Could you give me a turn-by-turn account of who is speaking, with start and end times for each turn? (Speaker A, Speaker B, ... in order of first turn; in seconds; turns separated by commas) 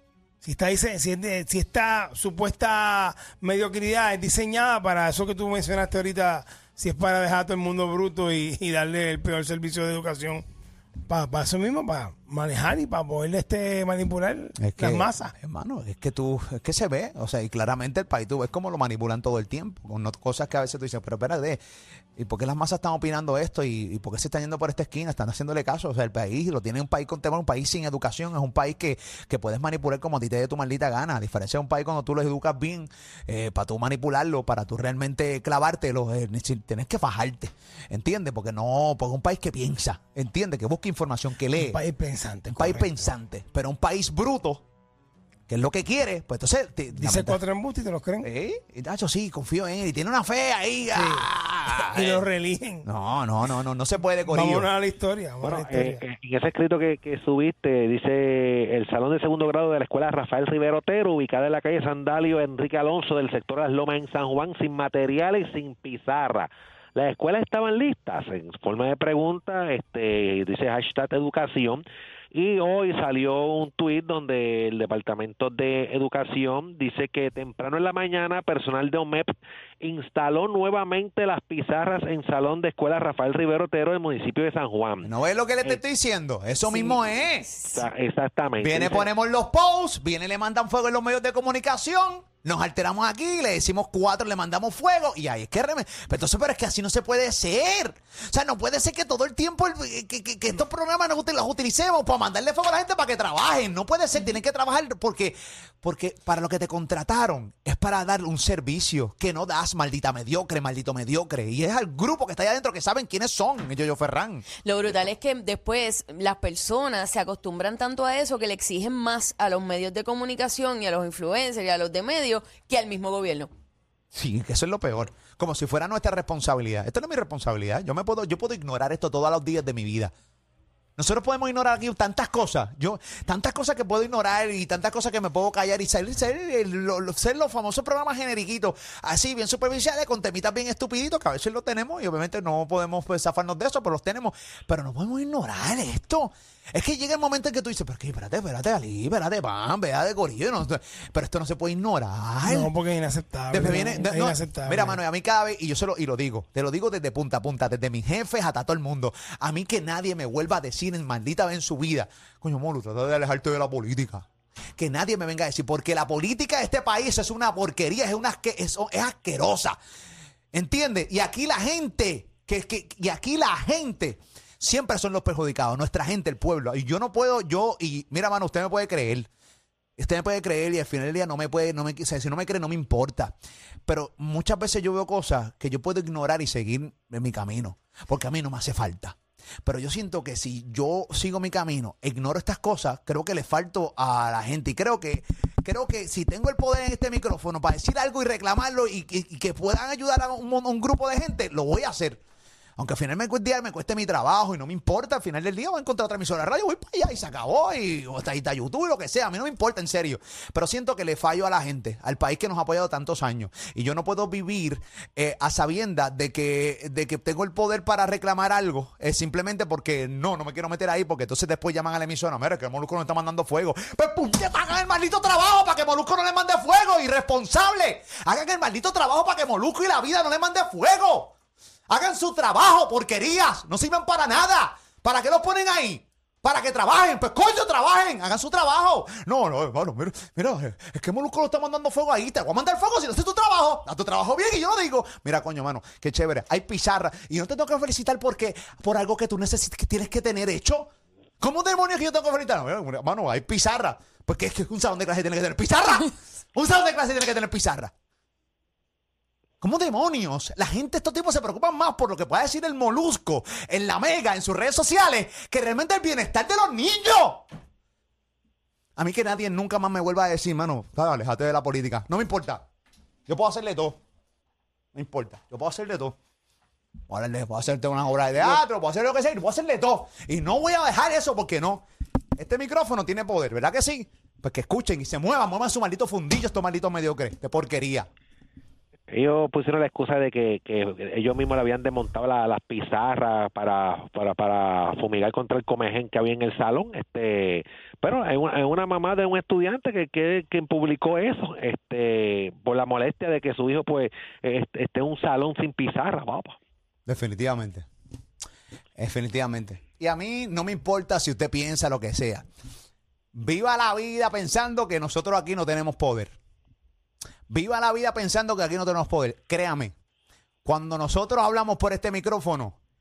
Speaker A: 0.4-10.4, Speaker A: 11.1-15.3, Speaker B: 14.6-21.6, Speaker B: 22.2-41.8, Speaker A: 41.5-43.1, Speaker B: 42.5-44.6, Speaker B: 45.5-47.4, Speaker A: 46.9-48.3, Speaker B: 48.2-52.2, Speaker A: 50.9-52.9, Speaker B: 52.8-54.7, Speaker A: 54.3-56.0, Speaker C: 55.4-85.1, Speaker B: 85.0-87.5, Speaker D: 86.7-87.0, Speaker C: 87.7-89.1, Speaker B: 88.6-114.4, Speaker D: 114.6-123.5, Speaker B: 124.1-130.1, Speaker B: 131.0-152.7, Speaker A: 152.4-155.0, Speaker B: 153.5-164.2, Speaker B: 164.8-169.8, Speaker B: 170.5-179.3, Speaker B: 180.0-183.3, Speaker B: 183.8-202.2, Speaker B: 202.8-231.3, Speaker B: 231.9-257.9, Speaker B: 259.6-267.4, Speaker B: 268.9-272.6, Speaker B: 273.3-274.0, Speaker B: 274.9-276.2, Speaker B: 277.1-281.8, Speaker B: 282.4-288.1, Speaker C: 289.1-306.6, Speaker B: 307.1-307.9, Speaker B: 309.0-312.5, Speaker B: 313.3-316.4, Speaker B: 317.5-319.9, Speaker B: 320.6-322.8